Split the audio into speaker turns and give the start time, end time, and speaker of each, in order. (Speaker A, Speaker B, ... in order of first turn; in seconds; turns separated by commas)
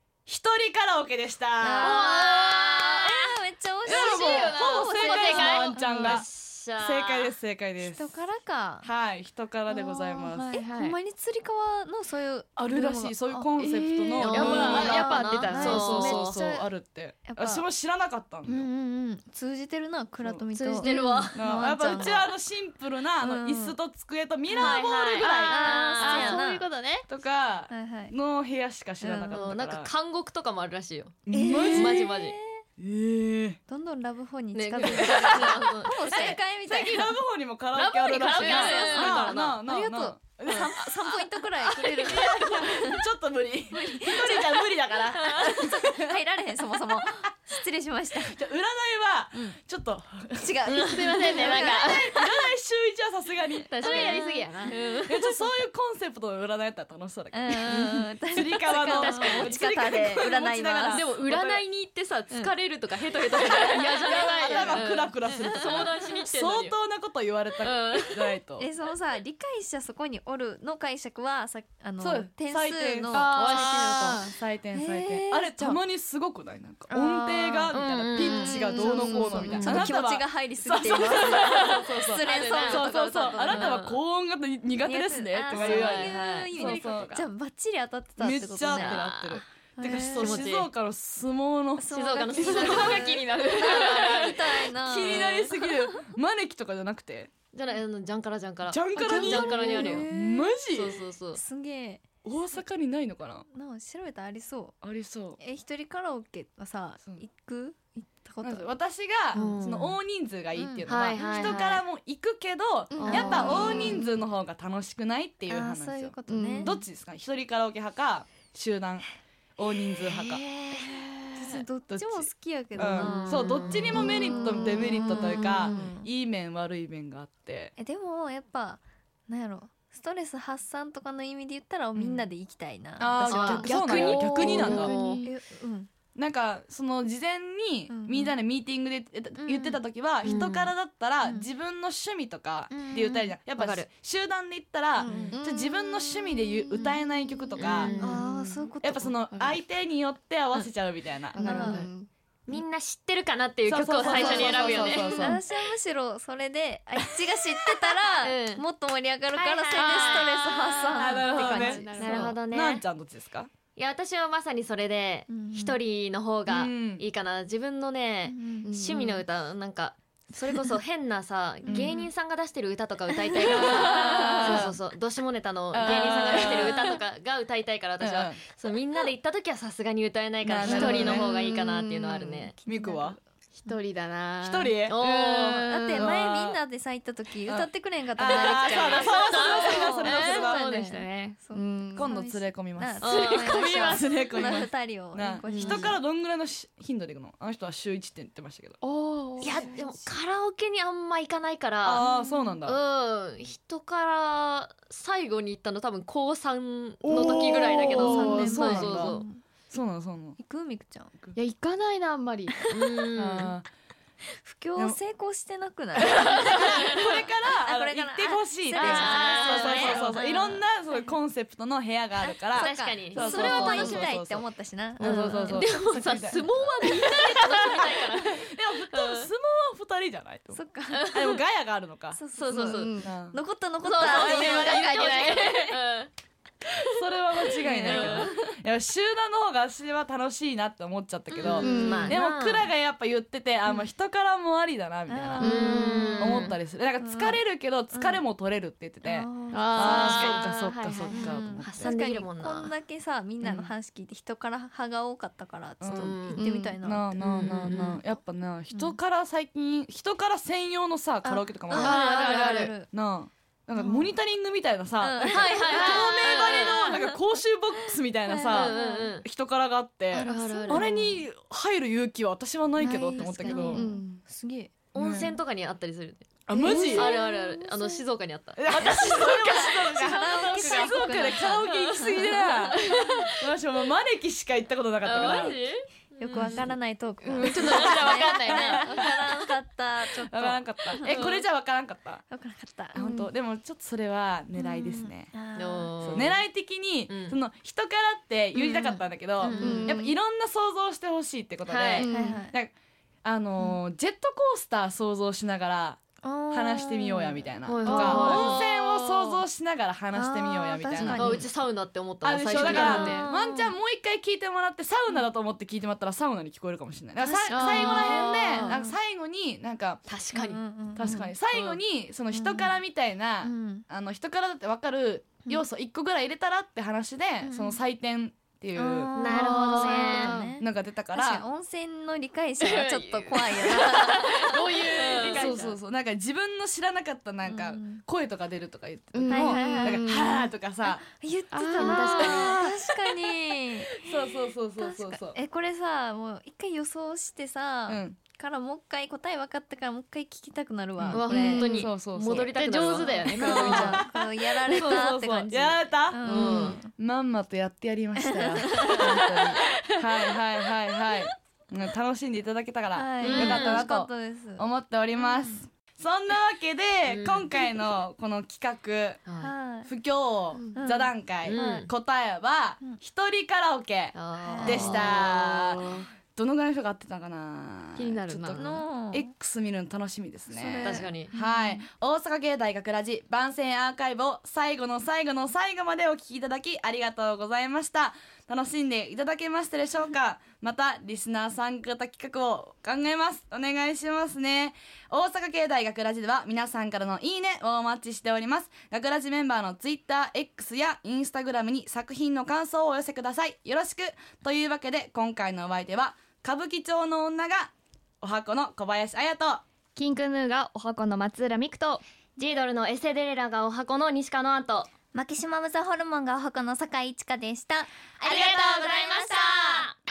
Speaker A: 0.2-2.1, Speaker B: 1.6-6.2, Speaker C: 1.8-3.3, Speaker A: 3.8-6.3, Speaker C: 3.8-7.3, Speaker A: 6.8-8.2, Speaker B: 7.8-8.9, Speaker A: 8.8-10.5, Speaker B: 9.7-16.7, Speaker C: 10.6-10.9, Speaker A: 12.6-18.7, Speaker C: 14.2-16.4, Speaker D: 14.3-14.7, Speaker B: 17.2-17.7, Speaker B: 18.5-22.4, Speaker A: 20.2-20.5, Speaker C: 20.6-22.2, Speaker A: 21.3-26.4, Speaker B: 23.2-23.8, Speaker B: 24.5-24.8, Speaker C: 24.6-27.0, Speaker B: 25.4-26.6, Speaker A: 27.1-29.9, Speaker B: 27.7-28.1, Speaker B: 29.0-29.5, Speaker C: 29.3-32.4, Speaker A: 31.3-32.1, Speaker B: 31.3-32.6, Speaker A: 32.8-33.6, Speaker B: 33.7-37.1, Speaker C: 34.5-36.4, Speaker A: 34.8-35.4, Speaker A: 36.0-46.0, Speaker C: 37.7-39.6, Speaker B: 38.1-43.0, Speaker C: 40.5-40.8, Speaker C: 41.7-42.6, Speaker B: 43.7-48.4, Speaker C: 45.2-45.6, Speaker A: 48.2-61.6, Speaker B: 49.3-49.6, Speaker B: 50.4-52.4, Speaker C: 50.6-52.1, Speaker C: 53.7-55.4, Speaker B: 53.8-55.1, Speaker B: 57.3-61.1, Speaker C: 58.9-59.7, Speaker C: 60.9-66.8, Speaker B: 63.3-64.9, Speaker A: 63.4-68.7, Speaker B: 65.4-65.9, Speaker C: 67.6-68.3, Speaker B: 68.6-75.8, Speaker A: 72.0-87.3, Speaker C: 73.1-74.2, Speaker B: 76.9-84.0, Speaker C: 77.7-79.9, Speaker C: 81.2-84.0, Speaker B: 84.8-90.5, Speaker C: 85.5-87.2, Speaker A: 88.2-93.8, Speaker C: 88.7-89.4, Speaker C: 90.1-90.7, Speaker B: 91.8-96.1, Speaker C: 91.9-95.5, Speaker A: 94.7-97.3, Speaker C: 97.5-100.1, Speaker A: 98.7-101.0, Speaker B: 99.0-100.6, Speaker C: 100.7-101.4, Speaker B: 101.3-102.0, Speaker A: 102.2-103.5, Speaker B: 103.5-104.7, Speaker A: 104.8-105.4, Speaker B: 105.4-108.7, Speaker A: 108.4-119.1, Speaker C: 109.3-110.0, Speaker B: 110.5-111.6, Speaker C: 110.8-111.8, Speaker B: 112.9-114.2, Speaker C: 113.0-114.0, Speaker D: 113.1-113.5, Speaker B: 115.5-116.8, Speaker D: 116.3-116.8, Speaker A: 119.6-120.4, Speaker C: 120.0-121.6, Speaker B: 120.7-126.1, Speaker A: 121.5-127.7, Speaker C: 122.8-125.5, Speaker D: 125.5-125.8, Speaker B: 127.8-135.9, Speaker A: 131.9-132.3, Speaker A: 133.0-134.9, Speaker C: 133.2-135.3, Speaker D: 133.8-135.3, Speaker A: 136.1-147.9, Speaker B: 137.9-138.4, Speaker B: 139.4-139.8, Speaker C: 140.2-140.7, Speaker B: 141.2-141.5, Speaker B: 142.7-143.4, Speaker C: 143.5-143.9, Speaker B: 145.0-149.2, Speaker C: 145.0-145.3, Speaker D: 145.1-145.6, Speaker C: 147.6-148.7, Speaker D: 147.8-148.2, Speaker A: 148.8-151.7, Speaker D: 149.3-149.6, Speaker B: 151.4-151.9, Speaker C: 151.4-151.9, Speaker D: 151.4-152.1, Speaker C: 152.5-155.4, Speaker A: 153.7-155.4, Speaker B: 153.9-162.4, Speaker C: 157.7-158.6, Speaker C: 159.3-161.3, Speaker A: 160.9-163.5, Speaker D: 161.3-162.3, Speaker C: 161.9-162.8, Speaker C: 163.8-182.5, Speaker B: 165.3-165.8, Speaker A: 166.5-167.1, Speaker B: 168.3-168.7, Speaker D: 168.6-169.2, Speaker B: 171.7-172.0, Speaker A: 173.6-174.7, Speaker B: 173.9-174.6, Speaker A: 175.7-176.8, Speaker B: 175.8-176.8, Speaker A: 178.0-178.4, Speaker A: 180.4-181.3, Speaker B: 180.6-183.8, Speaker A: 182.6-183.2, Speaker C: 183.5-186.1, Speaker A: 184.4-186.6, Speaker B: 185.6-196.0, Speaker A: 187.4-190.7, Speaker C: 188.2-191.4, Speaker D: 191.5-192.0, Speaker A: 191.9-198.8, Speaker C: 193.0-194.2, Speaker C: 195.5-195.9, Speaker D: 198.8-199.6, Speaker C: 199.4-202.1, Speaker B: 199.5-199.8, Speaker A: 201.8-202.8, Speaker B: 202.0-202.6, Speaker C: 202.6-209.2, Speaker A: 207.0-210.4, Speaker B: 207.2-209.4, Speaker B: 210.4-211.1, Speaker D: 211.3-212.6, Speaker C: 212.7-213.5, Speaker A: 213.2-213.7, Speaker B: 214.4-221.1, Speaker A: 216.1-230.6, Speaker C: 218.7-220.4, Speaker B: 222.2-226.7, Speaker C: 222.6-224.1, Speaker C: 225.0-229.3, Speaker B: 230.5-231.3, Speaker C: 230.9-231.4, Speaker A: 231.1-232.2, Speaker B: 232.1-235.8, Speaker C: 232.3-233.1, Speaker A: 232.9-233.4, Speaker C: 233.8-236.1, Speaker A: 234.0-234.9, Speaker A: 236.9-252.0, Speaker C: 237.6-238.3, Speaker B: 237.6-238.3, Speaker C: 241.3-242.7, Speaker D: 241.5-242.2, Speaker B: 241.6-242.2, Speaker B: 245.1-248.2, Speaker C: 245.4-246.6, Speaker D: 245.4-246.3, Speaker B: 249.0-250.5, Speaker C: 249.5-252.7, Speaker B: 251.1-258.0, Speaker A: 255.8-273.9, Speaker C: 255.9-258.0, Speaker B: 258.7-259.0, Speaker B: 261.2-262.9, Speaker C: 261.7-262.7, Speaker B: 263.7-264.1, Speaker B: 265.0-267.1, Speaker C: 265.3-267.1, Speaker B: 268.2-269.1, Speaker C: 268.5-269.2, Speaker B: 270.1-270.9, Speaker C: 270.2-271.2, Speaker B: 272.8-275.4, Speaker C: 273.1-273.9, Speaker D: 273.7-274.2, Speaker C: 274.9-278.7, Speaker A: 274.9-275.3, Speaker A: 276.5-277.2, Speaker B: 276.5-278.0, Speaker D: 276.6-277.0, Speaker A: 278.6-285.6, Speaker B: 278.7-283.1, Speaker C: 280.0-283.3, Speaker C: 285.0-286.7, Speaker B: 286.2-291.3, Speaker A: 286.3-286.7, Speaker C: 287.4-289.2, Speaker A: 287.4-289.2, Speaker A: 290.2-292.2, Speaker C: 291.0-291.4, Speaker B: 292.3-293.3, Speaker A: 292.9-295.3, Speaker B: 294.5-296.2, Speaker C: 295.5-296.4, Speaker A: 296.0-311.5, Speaker C: 297.1-297.4, Speaker B: 298.6-300.1, Speaker C: 299.4-299.9, Speaker D: 299.4-299.9, Speaker C: 301.6-302.1, Speaker D: 302.0-302.4, Speaker B: 302.0-302.5, Speaker B: 306.2-308.7, Speaker C: 307.7-309.2, Speaker D: 307.9-308.6, Speaker B: 310.1-311.5, Speaker C: 311.1-313.2, Speaker A: 312.2-320.0, Speaker B: 312.5-313.8, Speaker B: 317.2-319.0, Speaker C: 317.5-318.8, Speaker C: 320.1-320.6, Speaker B: 320.3-321.8, Speaker A: 320.9-329.2, Speaker B: 322.3-322.8, Speaker B: 323.4-323.9, Speaker B: 327.4-327.8, Speaker B: 328.7-334.8, Speaker C: 329.1-330.5, Speaker D: 329.3-330.4, Speaker A: 330.2-331.4, Speaker C: 332.6-335.8, Speaker D: 334.1-335.6, Speaker A: 335.3-341.0, Speaker B: 337.4-338.0, Speaker D: 339.1-340.4, Speaker B: 339.3-340.2, Speaker C: 339.4-339.9, Speaker B: 340.8-351.9, Speaker C: 341.5-342.6, Speaker D: 341.5-342.6, Speaker A: 341.9-343.3, Speaker A: 343.9-345.4, Speaker A: 347.9-348.2, Speaker A: 351.0-369.2, Speaker C: 351.1-354.1, Speaker D: 351.5-351.7, Speaker D: 352.5-353.9, Speaker B: 352.7-356.9, Speaker C: 354.7-355.1, Speaker C: 356.2-356.8, Speaker B: 358.2-359.4, Speaker B: 362.9-365.6, Speaker C: 363.2-363.9, Speaker C: 367.1-367.7, Speaker C: 369.2-369.5, Speaker B: 369.4-369.9, Speaker A: 369.8-407.7, Speaker B: 370.7-371.9, Speaker C: 371.4-371.9, Speaker C: 374.1-376.1, Speaker B: 374.4-375.2, Speaker C: 377.9-378.8, Speaker B: 378.5-379.3, Speaker B: 380.5-381.9, Speaker C: 380.8-381.3, Speaker A: 408.2-409.6, Speaker E: 409.9-412.0, Speaker C: 412.4-414.9, Speaker B: 415.1-419.7, Speaker C: 418.2-419.9